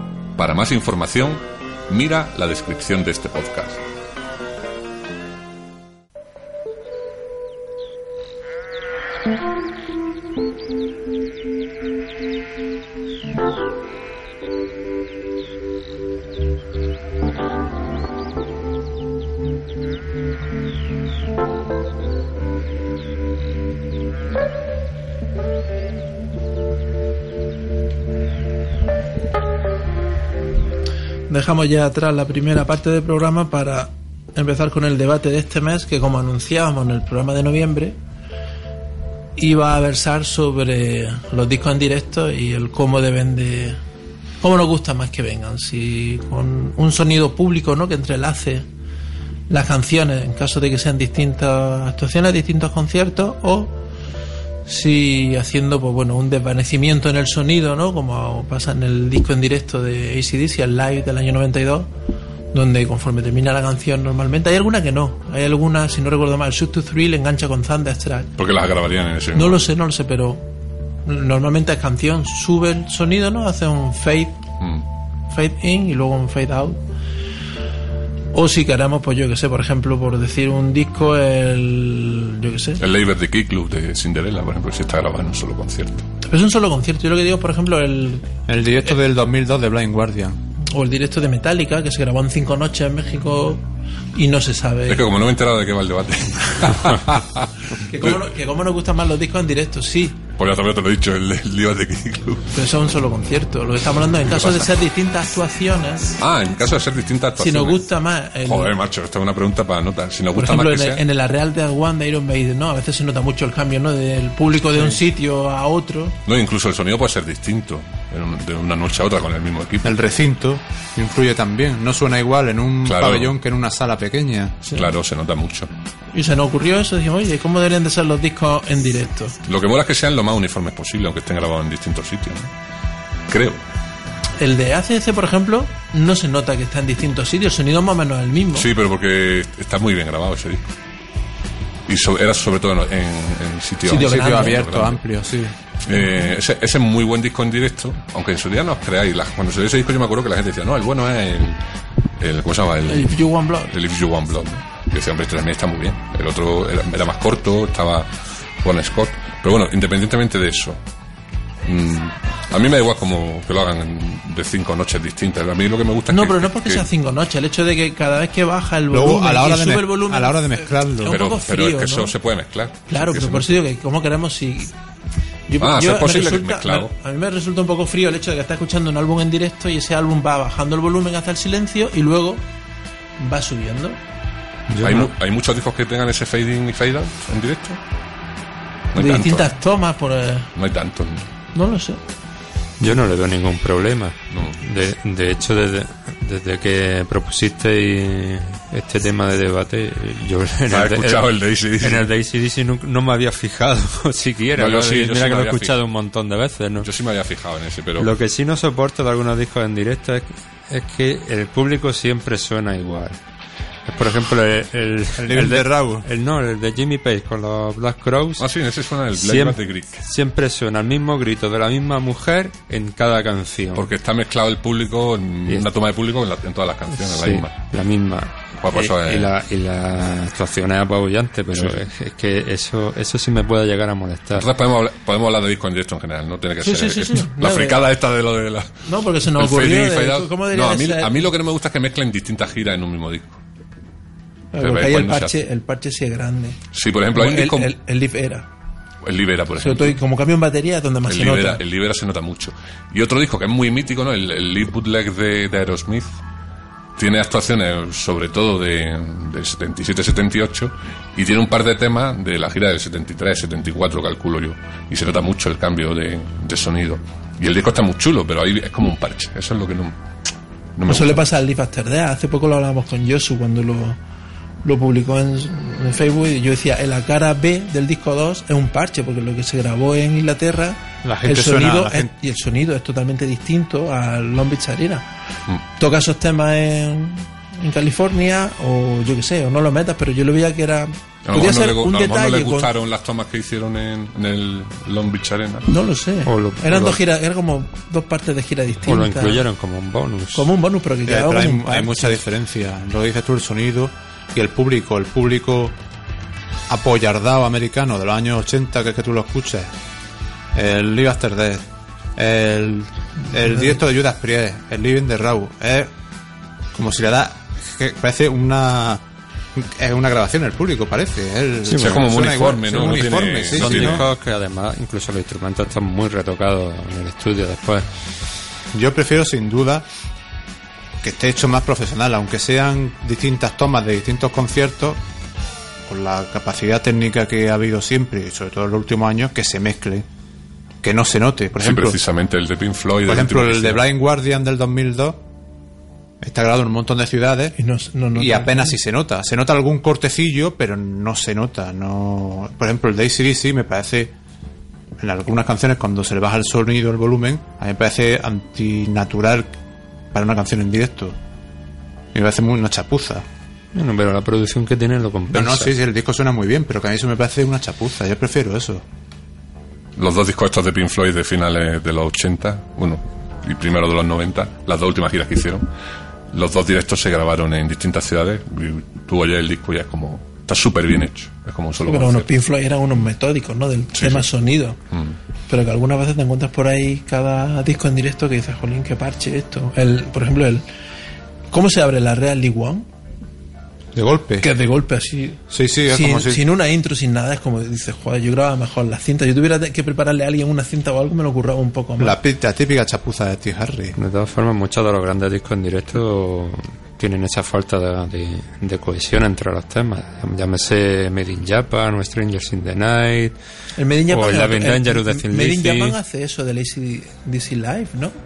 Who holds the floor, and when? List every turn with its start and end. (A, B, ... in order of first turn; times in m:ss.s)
0:00.4-0:03.8 A
0:31.3-0:38.0 B
0:39.4-0:43.8 B
0:44.4-0:48.7 B
0:49.5-0:53.8 B
0:54.7-1:01.9 B
1:02.5-1:08.3 B
1:08.4-1:09.6 A
1:09.3-1:10.5 B
1:11.1-1:14.4 B
1:14.6-1:14.8 A
1:15.3-1:16.8 B
1:18.3-1:22.8 B
1:22.8-1:26.0 A
1:26.3-1:28.3 B
1:28.5-1:30.4 C
1:30.7-1:35.1 B
1:34.9-1:38.2 A
1:37.8-1:40.2 B
1:40.4-1:42.5 A
1:42.5-1:46.2 B
1:44.3-1:44.7 A
1:46.2-1:47.9 A
1:47.4-1:48.8 B
1:48.4-1:51.0 A
1:50.3-1:56.2 B
1:56.2-1:59.9 A
1:59.8-2:04.6 C
2:02.8-2:03.3 A
2:04.7-2:05.7 A
2:06.1-2:09.4 B
2:09.5-2:12.5 A
2:13.3-2:13.6 A
2:14.4-2:18.7 B
2:18.6-2:20.6 A
2:21.9-2:25.0 A
2:23.8-2:24.6 B
2:24.0-2:25.5 C
2:25.8-2:31.6 A
2:32.2-2:38.1 A
2:32.8-2:33.7 B
2:38.6-2:40.8 A
2:41.6-2:46.9 A
2:46.1-2:52.1 B
2:48.9-2:51.2 C
2:51.0-2:53.6 A
2:52.9-2:54.7 B
2:55.5-3:02.4 B
2:55.6-2:56.9 A
3:03.2-3:04.0 B
3:04.7-3:05.1 D
3:04.8-3:07.8 A
3:08.9-3:09.5 A
3:09.0-3:10.5 B
3:10.6-3:11.3 A
3:11.5-3:12.0 B
3:12.8-3:26.9 D
3:14.3-3:14.6 A
3:20.7-3:22.1 A
3:24.6-3:25.8 A
3:26.8-3:28.1 A
3:28.0-3:33.2 D
3:33.9-3:38.5 D
3:35.2-3:36.1 C
3:38.4-3:40.0 A
3:39.1-3:43.9 D
3:43.8-3:47.5 A
3:47.0-3:54.5 D
3:48.6-3:49.3 A
3:51.5-3:51.8 A
3:54.4-3:58.7 A
3:56.6-3:57.9 B
3:58.9-4:01.2 B
3:59.3-4:03.4 A
4:04.5-4:06.6 B
4:04.6-4:05.4 A
4:06.7-4:07.7 A
4:07.1-4:08.5 B
4:09.0-4:10.0 A
4:09.6-4:11.6 B
4:11.1-4:16.2 A
4:17.0-4:30.0 A
4:30.8-4:31.2 A
4:30.9-4:34.0 B
4:34.6-4:45.1 B
4:41.0-4:42.1 C
4:45.8-4:52.7 B
4:51.2-4:55.7 A
4:55.7-4:59.4 B
4:56.2-4:57.0 D
4:58.9-5:00.5 D
5:00.3-5:02.2 B
5:01.1-5:05.8 C
5:06.7-5:09.7 C
5:10.5-5:11.6 C
5:12.2-5:15.9 C
5:16.7-5:19.0 C
5:19.6-5:24.0 C
5:21.7-5:22.1 D
5:21.7-5:24.1 A
5:23.5-5:27.9 D
5:28.7-5:29.9 C
5:31.0-5:35.0 C
5:35.9-5:40.0 C
5:40.8-5:42.0 C
5:41.6-5:43.9 A
5:43.1-5:45.2 C
5:46.2-5:47.6 C
5:47.6-5:48.8 B
5:48.1-5:54.1 C
5:55.0-5:59.6 C
6:00.1-6:01.2 C
6:02.1-6:03.2 C
6:03.7-6:05.8 D
6:05.3-6:08.8 C
6:10.0-6:15.7 A
6:16.3-6:22.3 A
6:21.8-6:24.8 B
6:23.9-6:24.3 A
6:25.5-6:30.6 B
6:31.5-6:32.9 B
6:33.9-6:34.5 C
6:34.4-6:42.2 B
6:35.5-6:36.4 C
6:42.0-6:44.0 C
6:44.0-6:53.4 D
6:53.8-6:58.2 B
6:54.1-6:56.0 D